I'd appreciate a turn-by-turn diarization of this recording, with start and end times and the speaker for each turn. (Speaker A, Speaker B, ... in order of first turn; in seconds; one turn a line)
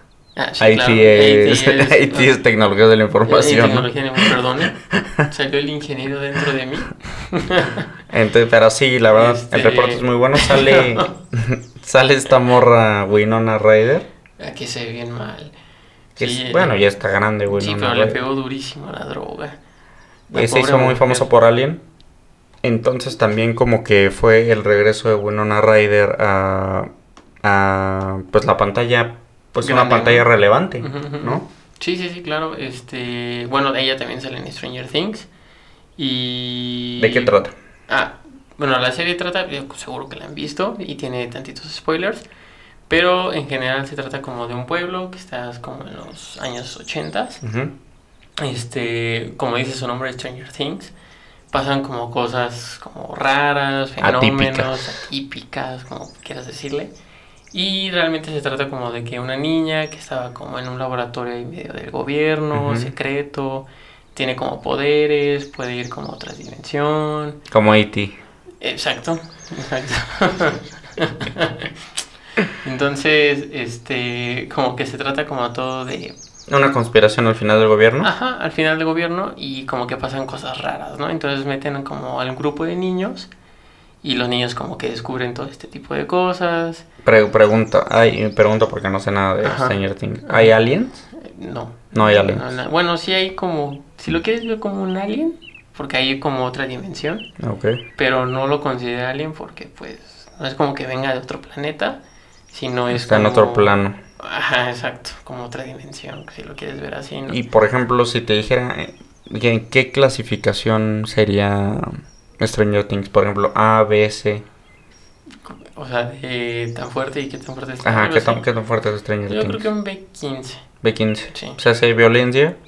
Speaker A: 0.3-2.3
Speaker B: 0.6-4.2
Speaker A: 3.2-4.8
Speaker B: 4.9-5.3
Speaker A: 5.3-7.9
Speaker B: 8.1-14.1
Speaker A: 9.1-11.1
Speaker A: 14.4-15.5
Speaker B: 16.1-18.2
Speaker A: 16.2-16.9
Speaker A: 17.5-19.6
Speaker B: 20.3-21.8
Speaker A: 20.3-21.3
Speaker B: 22.6-26.9
Speaker B: 27.4-31.4
Speaker A: 29.6-30.2
Speaker A: 30.8-35.3
Speaker A: 36.0-37.3
Speaker B: 37.0-37.5
Speaker A: 37.9-42.2
Speaker A: 42.9-47.4
Speaker B: 47.4-47.7
Speaker A: 48.4-50.9
Speaker A: 51.5-56.9
Speaker B: 54.0-55.0
Speaker A: 57.5-67.4
Speaker B: 62.5-62.9
Speaker B: 67.5-68.2
Speaker A: 68.6-71.7
Speaker A: 72.6-76.1
Speaker B: 76.5-78.1
Speaker A: 78.0-83.3
Speaker A: 84.0-86.8
Speaker B: 87.0-91.1
Speaker A: 89.4-90.5
Speaker A: 91.1-97.2
Speaker B: 91.9-92.4
Speaker B: 97.4-97.8
Speaker A: 98.0-107.4
Speaker B: 102.9-104.0
Speaker B: 107.3-114.4
Speaker A: 115.4-118.4
Speaker B: 117.8-119.7
Speaker A: 119.3-120.6
Speaker B: 120.8-122.5
Speaker A: 121.3-121.6